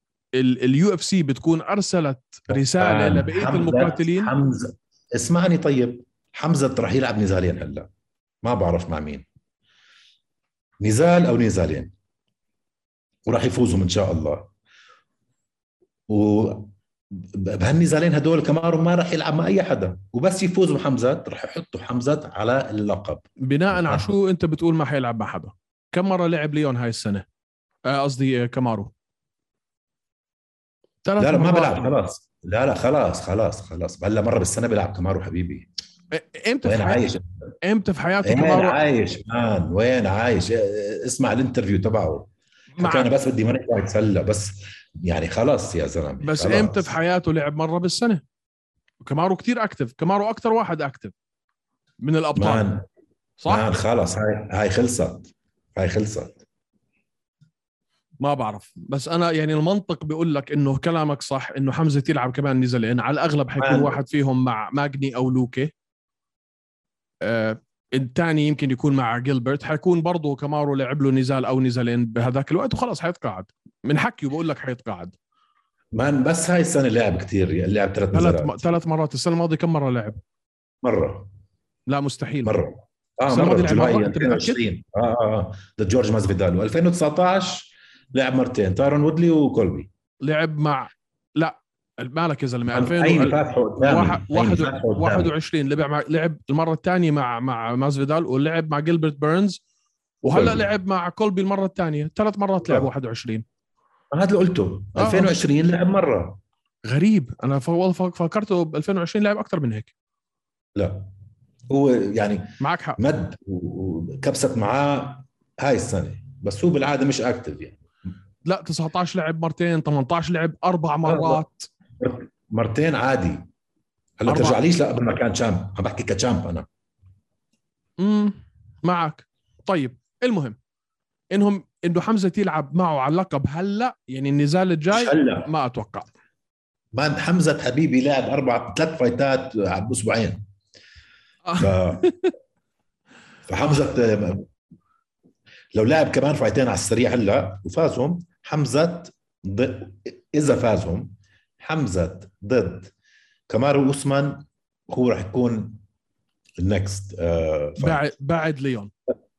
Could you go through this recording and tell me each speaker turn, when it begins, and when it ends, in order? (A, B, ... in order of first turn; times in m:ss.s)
0:00.3-0:04.3 A
0:02.5-0:07.9 B
0:08.4-0:09.2 B
0:10.8-0:11.9 B
0:13.2-0:14.5 B
0:16.1-0:24.1 B
0:23.4-0:27.2 A
0:27.9-0:28.9 A
0:31.0-0:31.9 A
0:31.2-0:35.7 B
0:36.1-0:37.0 A
0:36.6-0:37.5 B
0:37.6-0:38.8 A
0:38.2-0:47.0 B
0:42.8-0:43.1 A
0:46.2-0:48.2 A
0:49.0-0:51.1 A
0:52.0-0:52.7 A
0:52.3-0:52.8 B
0:53.4-0:53.7 A
0:53.5-0:56.4 B
0:58.2-1:05.7 A
1:03.6-1:04.0 B
1:07.2-1:15.2 A
1:15.9-1:18.6 B
1:18.1-1:20.2 A
1:20.8-1:21.3 B
1:21.9-1:22.6 A
1:22.4-1:29.9 B
1:23.3-1:24.6 A
1:30.2-1:39.6 A
1:32.7-1:35.3 B
1:40.2-1:43.4 A
1:40.3-1:40.6 B
1:44.1-1:46.4 B
1:45.0-1:45.3 A
1:46.8-1:49.9 A
1:50.8-1:51.1 B
1:51.7-1:57.8 B
1:52.6-1:53.0 A
1:58.4-2:01.7 A
2:01.0-2:01.4 B
2:02.0-2:03.5 B
2:04.2-2:06.7 B
2:04.3-2:04.6 A
2:08.0-2:10.6 A
2:11.3-2:16.1 A
2:14.9-2:15.5 B
2:16.9-2:20.4 B
2:21.4-2:22.3 A
2:21.6-2:22.0 B
2:23.5-2:24.5 B
2:25.7-2:32.9 B
2:33.5-2:35.8 B
2:36.6-2:38.0 B
2:37.8-2:38.9 A